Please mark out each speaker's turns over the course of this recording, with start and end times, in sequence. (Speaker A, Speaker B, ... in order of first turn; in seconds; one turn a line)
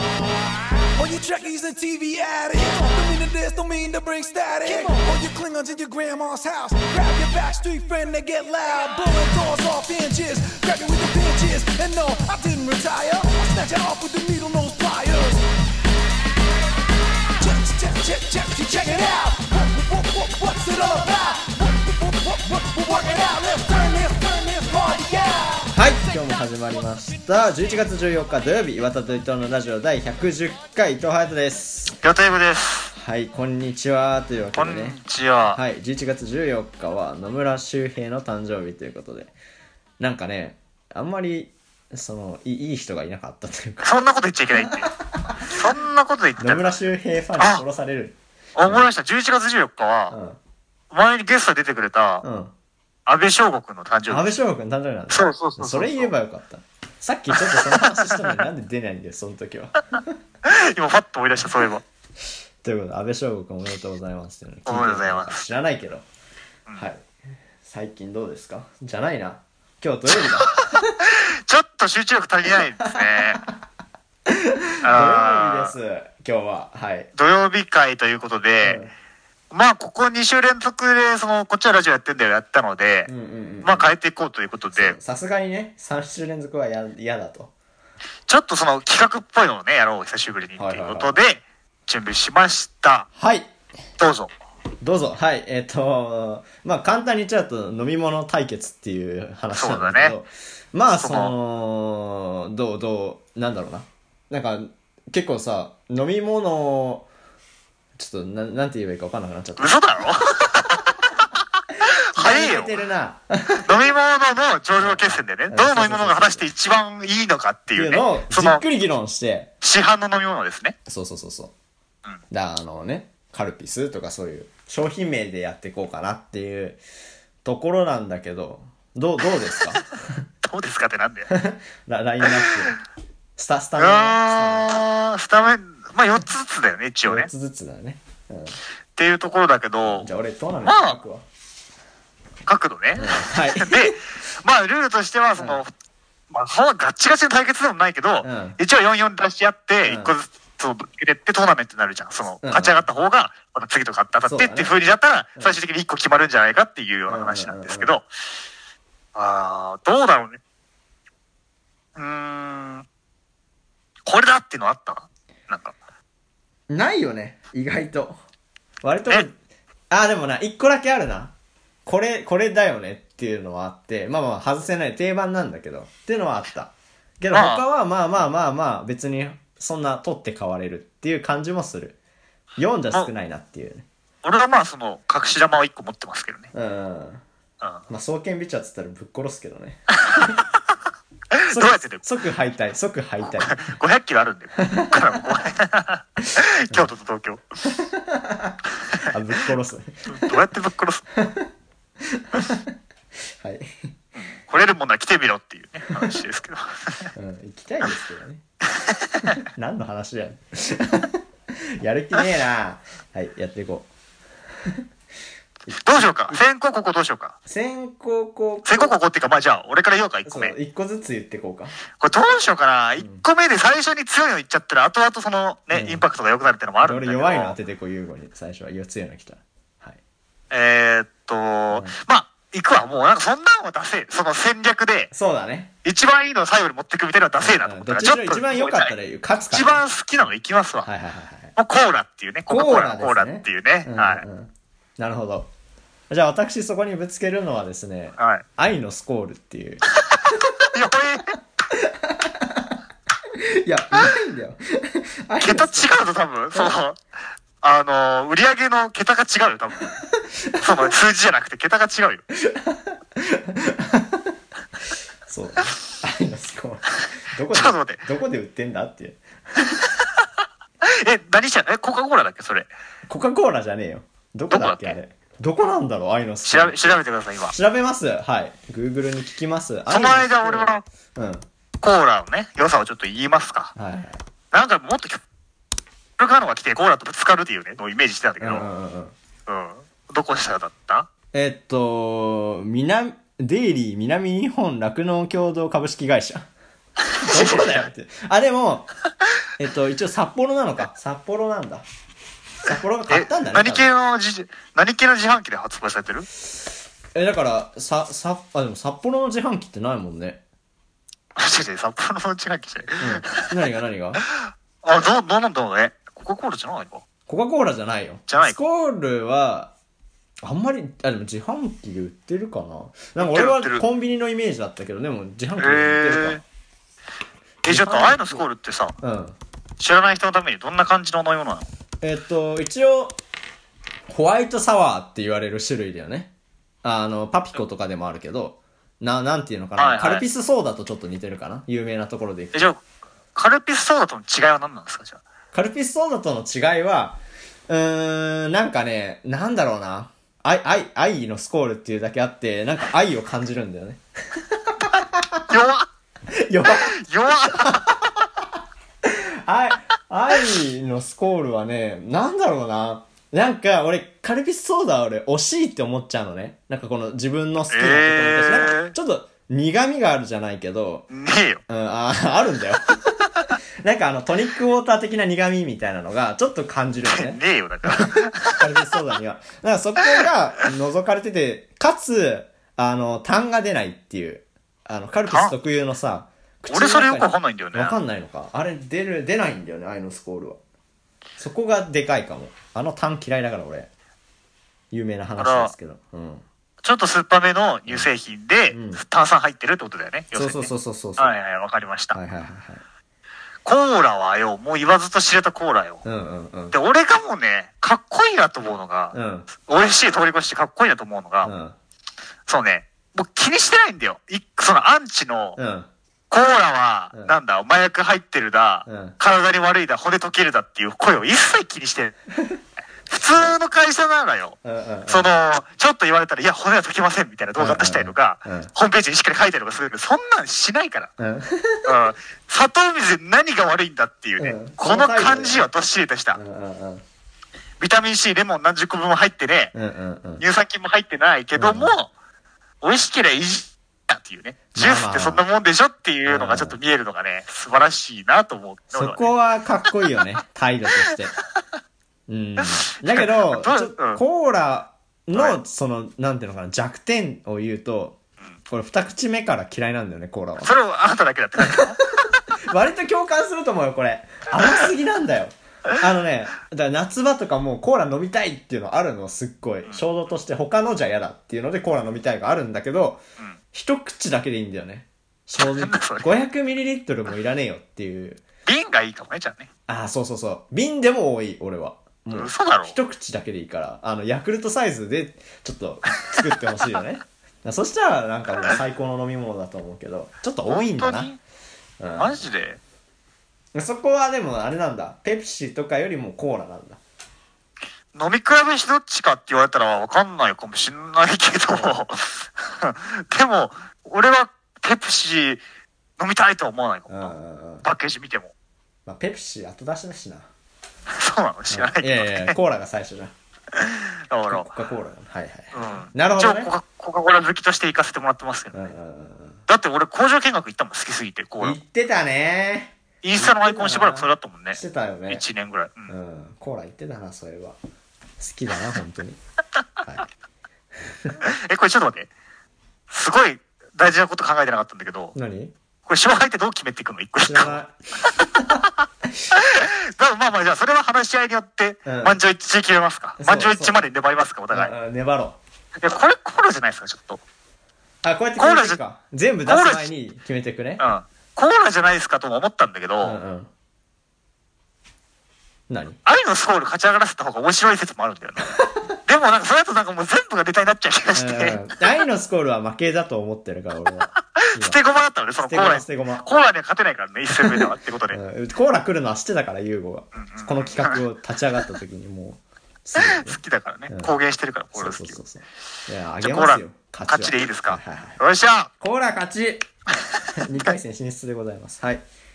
Speaker A: 0.9-15.4
Speaker A: 17.4-25.8
Speaker B: 25.7-32.0
Speaker C: 32.0-32.9
Speaker B: 32.9-35.0
Speaker C: 34.5-35.6
Speaker B: 35.5-39.3
Speaker B: 40.0-43.9
Speaker C: 43.8-44.9
Speaker B: 44.6-45.6
Speaker C: 45.5-46.7
Speaker B: 46.4-48.8
Speaker C: 47.4-47.6
Speaker C: 48.5-50.1
Speaker B: 50.1-50.4
Speaker C: 50.9-52.2
Speaker B: 52.2-52.5
Speaker C: 53.0-54.3
Speaker B: 54.1-60.2
Speaker C: 55.1-56.1
Speaker C: 57.4-58.4
Speaker C: 60.4-61.8
Speaker B: 62.6-66.0
Speaker C: 64.7-65.4
Speaker B: 66.8-67.0
Speaker B: 67.6-70.9
Speaker C: 70.1-73.4
Speaker B: 72.8-73.5
Speaker B: 74.3-77.1
Speaker C: 74.8-75.7
Speaker C: 77.1-78.8
Speaker B: 78.6-78.9
Speaker C: 79.5-83.1
Speaker B: 83.1-83.9
Speaker C: 83.6-85.0
Speaker B: 84.7-87.5
Speaker C: 88.3-93.1
Speaker B: 90.6-91.2
Speaker B: 93.2-93.5
Speaker C: 94.0-94.3
Speaker B: 94.8-107.1
Speaker C: 99.5-100.1
Speaker C: 101.0-101.3
Speaker B: 108.0-109.8
Speaker C: 109.6-110.9
Speaker C: 111.8-112.7
Speaker B: 112.1-113.9
Speaker C: 113.6-118.6
Speaker B: 114.8-116.5
Speaker B: 117.7-119.5
Speaker C: 119.6-120.8
Speaker B: 120.9-121.5
Speaker B: 122.3-126.8
Speaker B: 127.4-130.2
Speaker C: 130.4-131.3
Speaker B: 131.3-132.7
Speaker C: 132.2-132.6
Speaker B: 133.4-134.8
Speaker C: 133.8-137.3
Speaker B: 137.1-138.6
Speaker C: 138.9-140.1
Speaker B: 139.8-141.2
Speaker C: 140.6-141.0
Speaker C: 142.4-145.7
Speaker B: 143.0-144.0
Speaker C: 146.3-158.0
Speaker B: 148.2-148.6
Speaker B: 149.8-150.1
Speaker B: 152.4-152.8
Speaker B: 154.2-154.7
Speaker B: 157.1-157.9
Speaker C: 159.1-160.4
Speaker C: 161.9-162.8
Speaker C: 164.1-165.8
Speaker B: 166.7-168.2
Speaker B: 168.8-169.3
Speaker B: 169.9-171.3
Speaker B: 171.8-181.9
Speaker C: 177.3-177.6
Speaker B: 182.6-183.8
Speaker C: 184.2-186.5
Speaker B: 186.5-187.2
Speaker B: 187.9-190.3
Speaker C: 190.0-190.3
Speaker C: 191.3-192.0
Speaker B: 191.5-193.6
Speaker C: 193.3-197.4
Speaker B: 194.6-194.9
Speaker B: 197.6-200.4
Speaker C: 200.1-201.0
Speaker B: 201.1-201.5
Speaker B: 202.0-202.7
Speaker B: 203.4-203.9
Speaker C: 204.2-207.1
Speaker B: 207.1-208.4
Speaker C: 208.7-209.4
Speaker B: 209.4-213.9
Speaker B: 215.7-216.4
Speaker C: 215.8-217.3
Speaker B: 217.4-218.9
Speaker C: 218.6-220.5
Speaker B: 220.2-221.7
Speaker C: 222.0-227.6
Speaker B: 225.7-226.0
Speaker B: 226.8-230.0
Speaker C: 230.5-235.1
Speaker B: 231.7-231.9
Speaker B: 235.1-235.7
Speaker C: 235.8-238.9
Speaker B: 237.4-239.8
Speaker C: 239.5-240.9
Speaker B: 240.8-241.5
Speaker C: 241.6-244.2
Speaker B: 242.5-245.5
Speaker B: 246.1-249.8
Speaker C: 248.2-248.4
Speaker C: 250.0-251.3
Speaker B: 251.7-252.7
Speaker B: 253.3-255.9
Speaker C: 255.4-257.0
Speaker B: 256.5-256.8
Speaker C: 257.6-259.9
Speaker B: 259.9-260.9
Speaker C: 260.6-262.2
Speaker B: 262.4-264.3
Speaker B: 265.3-269.7
Speaker C: 267.5-268.0
Speaker C: 269.8-270.1
Speaker C: 270.8-272.7
Speaker B: 273.1-276.8
Speaker C: 274.5-274.9
Speaker C: 276.4-277.6
Speaker B: 277.5-281.4
Speaker C: 279.9-280.8
Speaker C: 281.8-283.7
Speaker B: 283.8-284.2
Speaker C: 284.5-285.2
Speaker C: 286.2-288.7
Speaker B: 288.4-289.1
Speaker C: 289.5-291.1
Speaker B: 291.3-296.5
Speaker C: 297.1-297.9
Speaker B: 297.2-298.9
Speaker B: 299.6-301.8
Speaker B: 302.6-303.9
Speaker C: 303.1-306.3
Speaker B: 307.1-310.4
Speaker C: 311.4-313.5
Speaker B: 313.0-314.2
Speaker C: 314.8-317.0
Speaker B: 317.3-319.7
Speaker C: 318.3-318.6
Speaker B: 320.4-326.4
Speaker C: 323.2-323.8
Speaker C: 325.6-326.4
Speaker C: 327.6-328.9
Speaker B: 327.6-328.4
Speaker B: 329.0-329.3
Speaker C: 329.8-331.7
Speaker B: 332.0-333.1
Speaker B: 334.1-336.3
Speaker B: 336.8-342.5
Speaker C: 339.8-340.2
Speaker C: 342.5-342.8
Speaker C: 343.3-345.2
Speaker B: 345.5-355.4
Speaker C: 355.5-355.9
Speaker B: 356.3-356.9
Speaker C: 356.7-357.8
Speaker B: 357.5-358.2
Speaker B: 359.0-371.1
Speaker C: 367.7-368.9
Speaker C: 371.1-371.6
Speaker B: 371.7-373.3
Speaker B: 373.8-390.6
Speaker C: 377.1-378.6
Speaker C: 385.3-385.5
Speaker C: 386.7-388.0
Speaker B: 391.4-393.9
Speaker B: 394.9-396.4
Speaker C: 395.4-395.7
Speaker C: 396.8-402.2
Speaker B: 398.7-399.0
Speaker B: 400.3-401.3
Speaker B: 402.1-402.8
Speaker C: 403.6-406.0
Speaker B: 406.0-406.7
Speaker C: 406.7-411.5
Speaker B: 409.1-409.5
Speaker B: 411.4-411.7
Speaker C: 412.5-415.6
Speaker B: 415.6-415.9
Speaker C: 416.3-422.1
Speaker B: 418.9-419.1
Speaker C: 423.1-431.1
Speaker B: 424.6-425.3
Speaker B: 427.6-428.7
Speaker B: 431.2-432.0
Speaker C: 431.8-436.4
Speaker B: 434.4-435.7
Speaker B: 436.3-437.0
Speaker C: 437.8-439.7
Speaker B: 439.7-440.4
Speaker C: 440.4-442.1
Speaker B: 441.5-441.9
Speaker C: 442.8-449.3
Speaker B: 444.7-445.4
Speaker B: 446.2-446.8
Speaker B: 448.9-451.3
Speaker B: 452.3-458.2
Speaker C: 452.6-454.2
Speaker B: 458.7-460.7
Speaker C: 460.6-462.0
Speaker B: 461.6-473.2
Speaker B: 473.7-478.4
Speaker C: 475.6-476.3
Speaker C: 478.6-479.7
Speaker B: 479.9-491.3
Speaker C: 482.3-483.0
Speaker C: 490.6-491.4
Speaker B: 492.0-492.4
Speaker C: 492.2-492.8
Speaker B: 493.7-497.0
Speaker C: 498.1-505.6
Speaker B: 501.7-502.0
Speaker C: 506.2-508.5
Speaker B: 507.1-507.8
Speaker B: 509.1-510.5
Speaker C: 511.1-512.5
Speaker B: 511.7-513.3
Speaker C: 513.7-514.7
Speaker B: 514.5-516.7
Speaker C: 515.7-518.9
Speaker B: 518.7-519.6
Speaker C: 519.7-521.8
Speaker B: 521.6-525.4
Speaker C: 523.2-526.1
Speaker B: 526.1-527.8
Speaker B: 528.4-529.4
Speaker C: 531.4-532.3
Speaker C: 533.1-535.3
Speaker B: 535.3-535.7
Speaker C: 536.0-537.8
Speaker B: 537.4-537.9
Speaker B: 538.5-538.8
Speaker C: 539.5-544.9
Speaker B: 542.0-542.4
Speaker B: 543.4-544.1
Speaker B: 544.7-545.6
Speaker C: 546.0-547.4
Speaker B: 548.2-551.0
Speaker C: 548.6-549.0
Speaker C: 549.6-550.1
Speaker C: 551.0-553.4
Speaker B: 553.2-553.7
Speaker B: 555.9-556.2
Speaker C: 556.2-558.7
Speaker C: 559.2-561.9
Speaker B: 561.3-565.0
Speaker C: 564.5-568.4
Speaker B: 565.6-566.5
Speaker B: 567.6-574.3
Speaker C: 570.4-571.2
Speaker C: 573.2-575.4
Speaker B: 574.9-578.4
Speaker C: 576.4-578.9
Speaker B: 579.0-579.8
Speaker B: 580.5-582.2